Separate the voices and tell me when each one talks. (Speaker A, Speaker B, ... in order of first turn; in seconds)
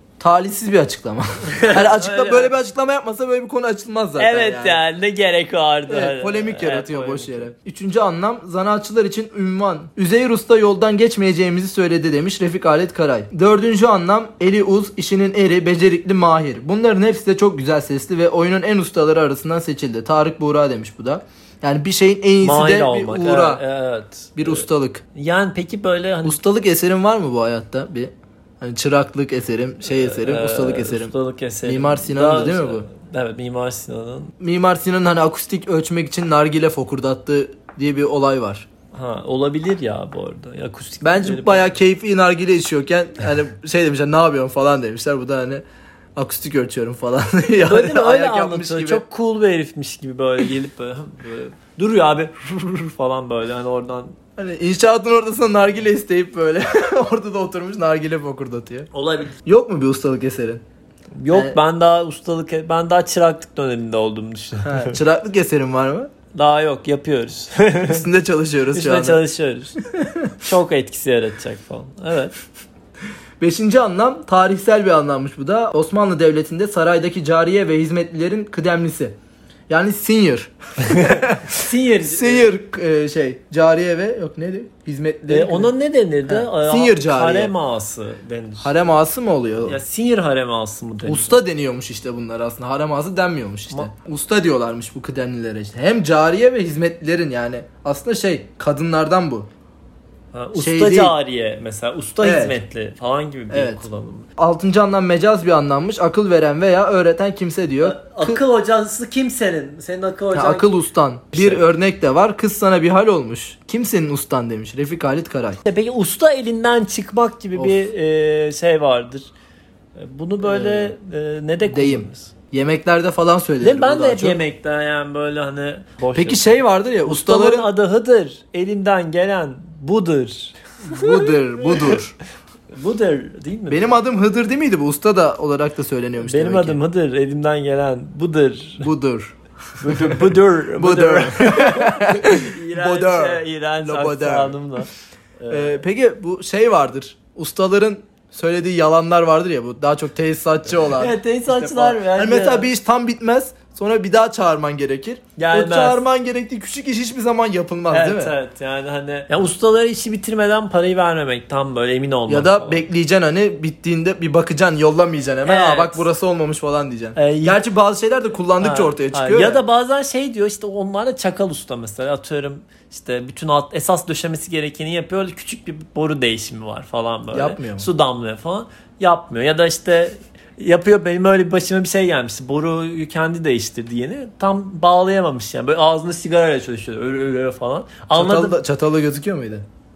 Speaker A: 0.2-4.8, 5.9-23.6, 24.4-25.0, 26.2-31.1, 31.6-32.9, 34.4-38.7, 41.0-45.6, 46.2-49.0, 54.4-58.9, 59.5-60.6, 61.3-61.6, 64.6-66.1, 67.9-69.2, 70.0-70.3, 73.4-79.1, 79.7-85.7, 86.2-87.5, 88.6-89.8, 91.0-99.5, 100.6-101.1, 102.2-102.6, 103.5-103.8, 104.4-108.4, 110.3-115.6, 120.4-120.9, 121.7-124.4, 126.1-127.7, 130.8-132.1, 133.7-136.8, 138.8-144.6, 145.5-158.3, 162.3-169.6, 177.3-177.9, 188.1-189.6
Speaker B: 1.5-2.5, 4.2-7.5, 22.4-26.4, 29.8-34.3, 38.9-41.7, 47.6-54.1, 58.9-59.4, 61.2-65.0, 66.3-68.1, 68.7-69.8, 70.4-72.3, 80.9-82.5, 85.3-88.7, 89.6-91.4, 100.3-104.3, 107.8-110.7, 111.3-111.6, 115.6-119.3, 120.0-122.3, 123.6-132.0, 132.7-134.0, 136.2-138.9, 139.8-145.8, 150.9-152.7, 155.4-156.0, 157.9-162.8, 165.4-166.1, 167.2-167.6, 168.6-188.6